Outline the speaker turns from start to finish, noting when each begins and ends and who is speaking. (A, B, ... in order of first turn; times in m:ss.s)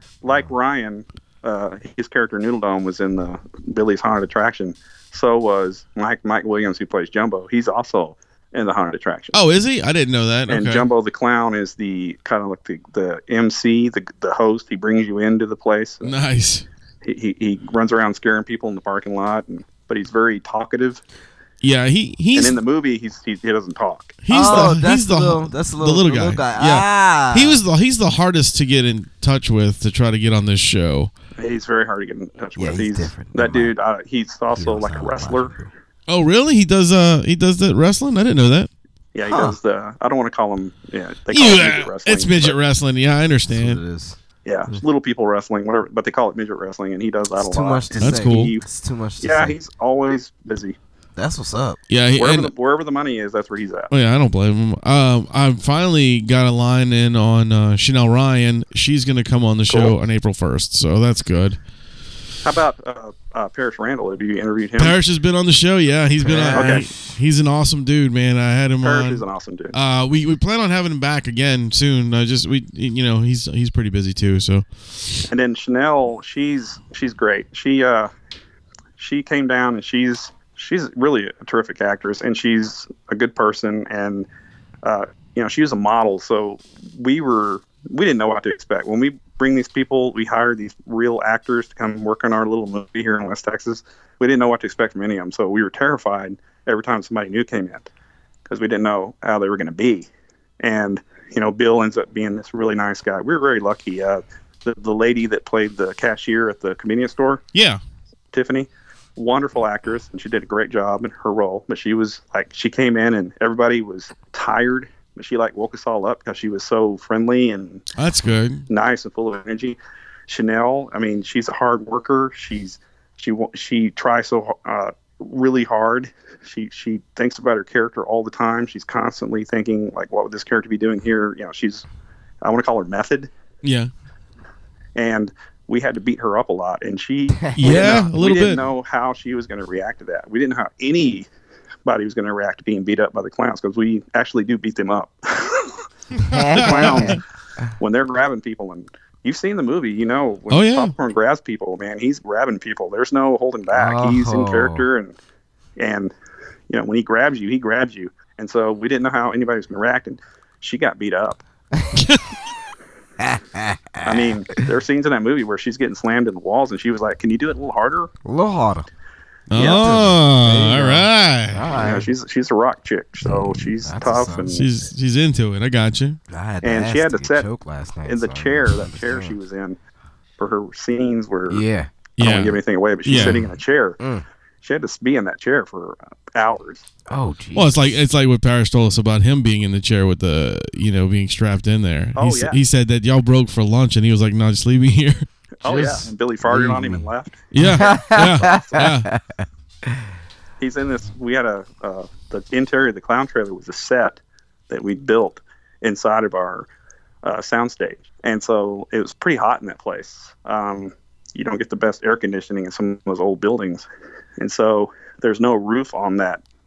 0:00.2-0:09.4 A
0:09.3-0:10.9 B
0:10.5-0:16.2 A
0:16.0-0:16.7 B
0:17.0-0:21.0 A
0:21.6-0:22.6 B
0:22.3-0:24.7 A
0:24.3-0:31.1 B
0:24.3-0:27.6 C
0:31.4-0:35.5 A
0:32.6-0:33.7 C
0:34.6-0:35.7 C
0:36.1-0:38.7 B
0:39.1-0:42.6 A
0:39.3-0:39.6 C
0:41.3-0:43.8 B
0:43.5-0:44.2 C
0:44.4-0:48.7 A
0:47.4-0:49.6 C
0:48.0-0:48.5 B
0:49.2-0:50.8 A
0:51.2-0:51.8 C
0:51.9-0:52.5 B
0:52.2-0:53.9 A
0:53.9-1:01.6 B
0:59.7-0:59.9 A
1:02.4-1:05.0 A
1:04.8-1:15.2 B
1:06.2-1:07.2 C
1:06.6-1:06.9 A
1:08.8-1:09.8 A
1:15.3-1:18.1 A
1:19.0-1:24.3 A
1:24.8-1:37.9 A
1:38.5-1:40.1 A
1:40.6-1:47.4 A
1:47.5-1:47.8 B
1:48.3-1:57.8 A
1:58.0-1:58.7 B
1:58.7-2:11.8 A
2:12.4-2:13.3 A
2:13.6-2:13.9 B
2:15.0-2:21.3 A
2:17.4-2:18.0 C
2:17.5-2:18.7 B
2:21.8-2:25.8 A
2:26.2-2:27.2 C
2:26.5-2:27.2 A
2:26.6-2:27.2 B
2:27.8-2:35.2 A
2:30.5-2:30.9 B
2:33.7-2:34.9 C
2:35.8-2:36.1 A
2:36.7-2:41.4 A
2:42.0-2:42.3 B
2:43.2-2:44.3 C
2:44.0-2:48.1 A
2:48.2-2:48.9 C
2:49.5-2:51.8 B
2:49.6-2:49.9 A
2:49.6-2:52.1 C
2:51.8-2:54.7 A
2:53.2-2:54.5 C
2:54.5-2:56.2 B
2:56.3-2:59.4 C
2:56.6-2:57.5 A
2:58.1-2:59.8 A
3:00.4-3:01.6 A
3:01.5-3:01.9 C
3:02.2-3:03.4 B
3:02.2-3:04.0 A
3:03.1-3:04.2 C
3:04.6-3:06.9 A
3:07.1-3:08.0 C
3:07.5-3:15.3 B
3:12.2-3:12.6 A
3:15.6-3:18.9 A
3:15.6-3:17.1 C
3:17.5-3:19.1 B
3:17.6-3:20.1 C
3:20.6-3:26.7 A
3:27.2-3:33.8 A
3:34.4-3:36.4 A